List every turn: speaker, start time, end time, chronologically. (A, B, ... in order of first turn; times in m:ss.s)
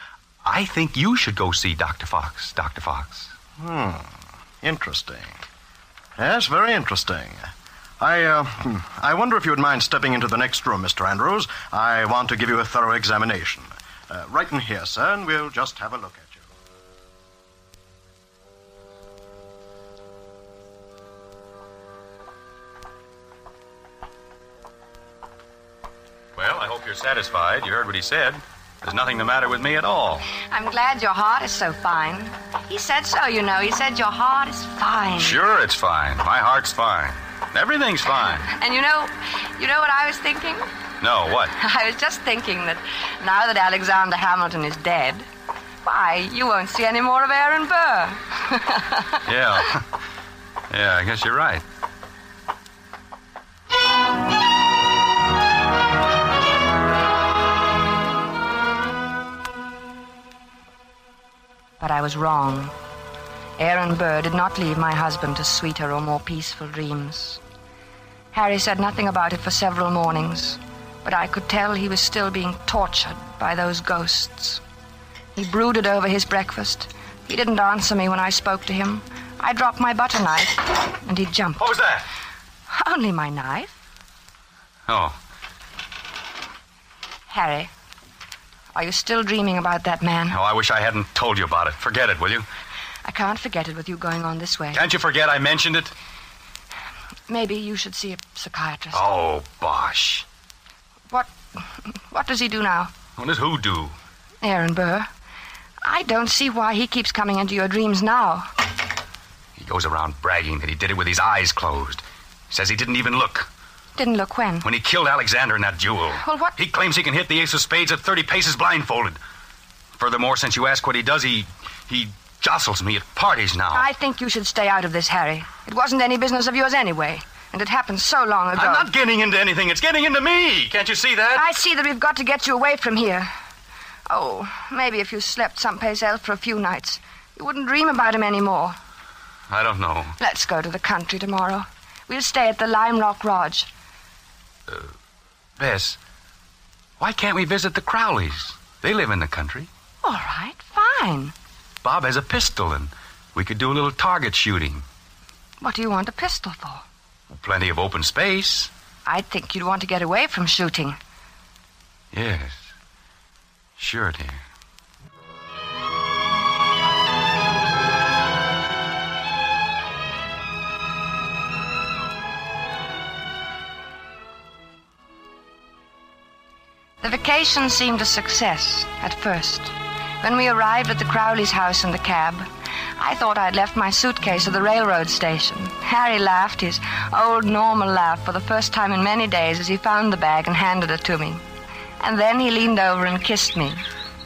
0:00.4-0:03.3 A
0:03.6-0:05.4 B
0:06.2-0:07.5 B
0:08.0-0:16.5 B
0:26.4-0:30.3 A
0:30.4-0:35.4 C
0:35.2-0:38.5 A
0:38.5-0:40.7 C
0:41.0-0:41.5 A
0:41.6-0:45.3 C
0:45.8-0:49.2 C
0:49.2-0:50.0 A
0:50.7-0:51.6 A
1:01.8-1:02.7 C
1:03.6-1:07.4 C
1:08.3-1:14.6 C
1:15.3-1:21.7 C
1:21.6-1:22.1 A
1:22.7-1:23.8 C
1:24.9-1:25.2 A
1:27.3-1:27.7 C
1:28.7-1:30.4 C
1:30.3-1:32.4 A
1:33.0-1:34.8 C
1:34.7-1:35.9 A
1:37.3-1:39.0 C
1:38.9-1:40.2 A
1:41.1-1:42.9 C
1:43.2-1:44.0 A
1:44.4-1:45.1 C
1:45.8-1:48.5 C
1:49.6-1:53.5 A
1:54.0-1:54.7 C
1:54.6-1:59.2 A
1:56.2-1:56.6 C
2:00.0-2:03.9 A
2:03.7-2:08.9 C
2:08.5-2:11.4 A
2:11.3-2:13.3 C
2:14.1-2:18.8 C
2:19.5-2:20.2 A
2:20.2-2:23.7 C
2:24.7-2:24.9 A
2:25.6-2:26.0 A
2:27.0-2:29.7 A
2:30.0-2:31.3 C
2:31.8-2:34.8 A
2:35.6-2:36.8 C
2:37.3-2:38.7 A
2:39.0-2:41.0 C
2:42.1-2:42.7 A
2:43.8-2:44.4 A
2:57.0-3:02.5 C
3:03.0-3:11.4 C
3:12.0-3:13.8 C